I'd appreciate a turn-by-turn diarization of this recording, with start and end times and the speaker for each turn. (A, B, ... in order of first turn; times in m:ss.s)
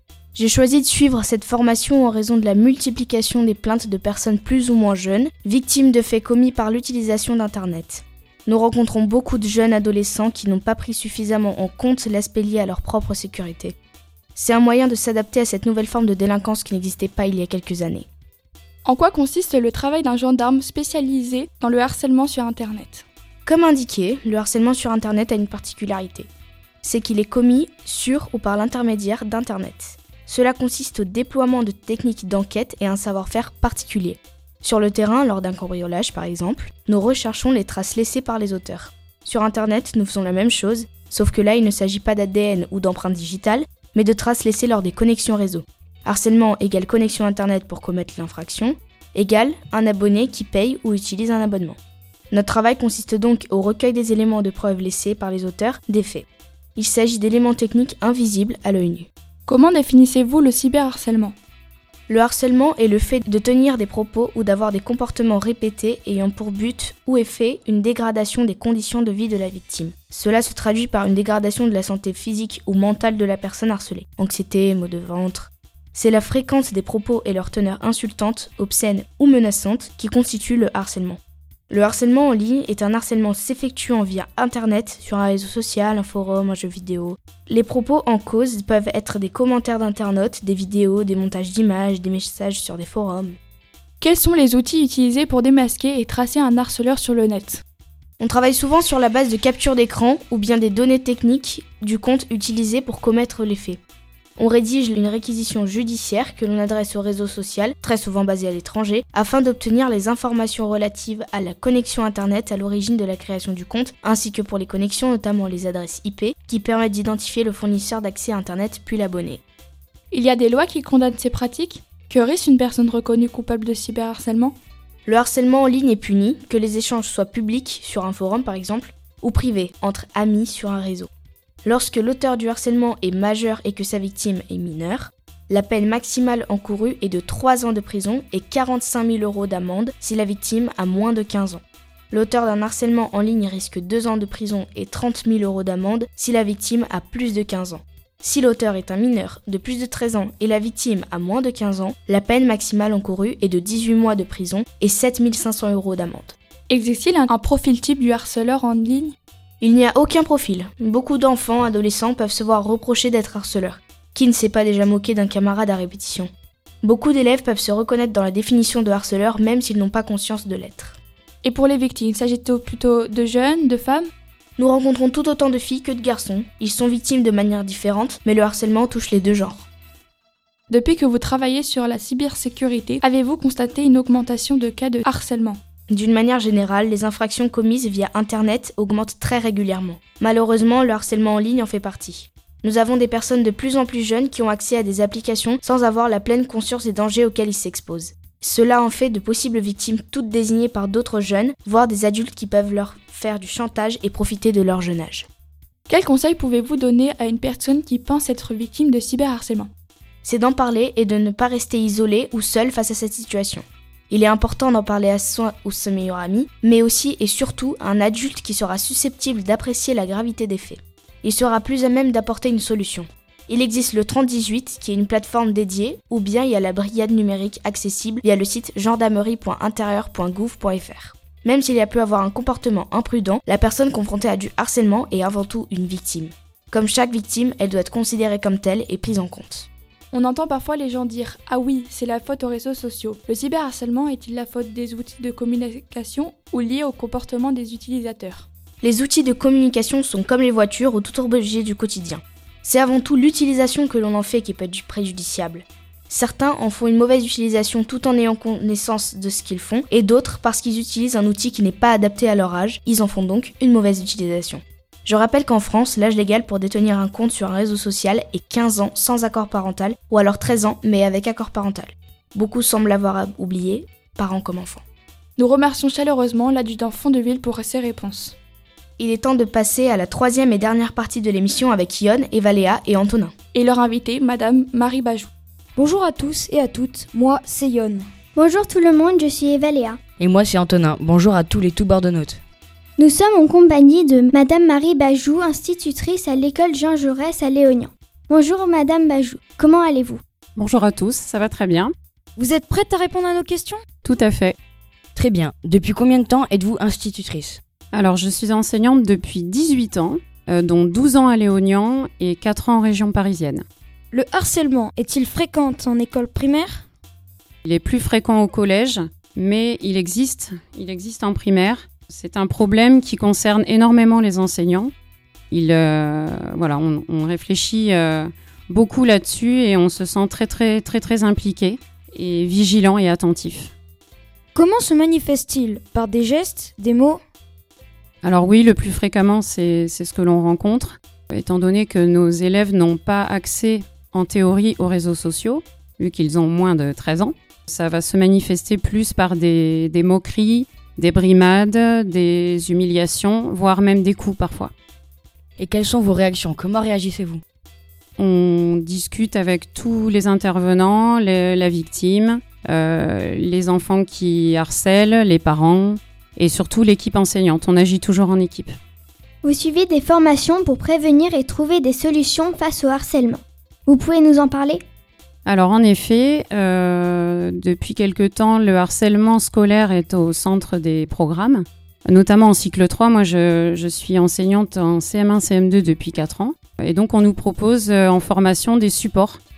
0:00.3-0:13.7 A
0:14.3-0:18.1 A
0:18.8-0:23.0 B
0:23.4-0:26.3 A
0:26.8-0:51.8 A
0:52.3-0:59.1 A
0:59.5-1:01.3 B
1:02.1-1:21.2 A
1:21.7-1:33.4 A
1:34.0-1:37.6 B
1:38.2-1:43.8 A
1:44.4-1:59.4 A
2:00.1-2:04.6 B
2:05.0-2:11.1 A
2:11.6-2:36.4 A
2:36.7-2:39.1 B
2:39.6-2:46.3 A
2:46.8-2:51.0 A
2:51.4-2:54.1 B
2:54.6-2:59.6 A
3:00.7-3:05.6 B
3:05.9-3:25.3 A
3:25.9-3:29.7 B
3:30.2-3:59.7 A
4:00.1-4:08.4 B
4:08.8-4:34.8 A
4:35.4-4:38.3 B
4:39.0-4:43.3 A
4:43.5-4:45.3 B
4:45.8-4:48.1 C
4:48.3-4:50.0 D
4:50.2-4:52.4 E
4:53.0-5:00.2 D
5:00.6-5:01.9 F
5:02.4-5:03.8 C
5:04.0-5:04.6 F
5:05.1-5:07.6 E
5:07.9-5:13.6 F
5:14.1-5:16.8 C
5:17.6-5:24.9 F
5:25.5-5:33.7 F
5:34.5-5:37.2 C
5:38.2-5:54.7 F
5:55.6-5:57.4 E
5:58.2-6:08.8 F
6:09.4-6:14.8 D
6:15.4-6:29.4 F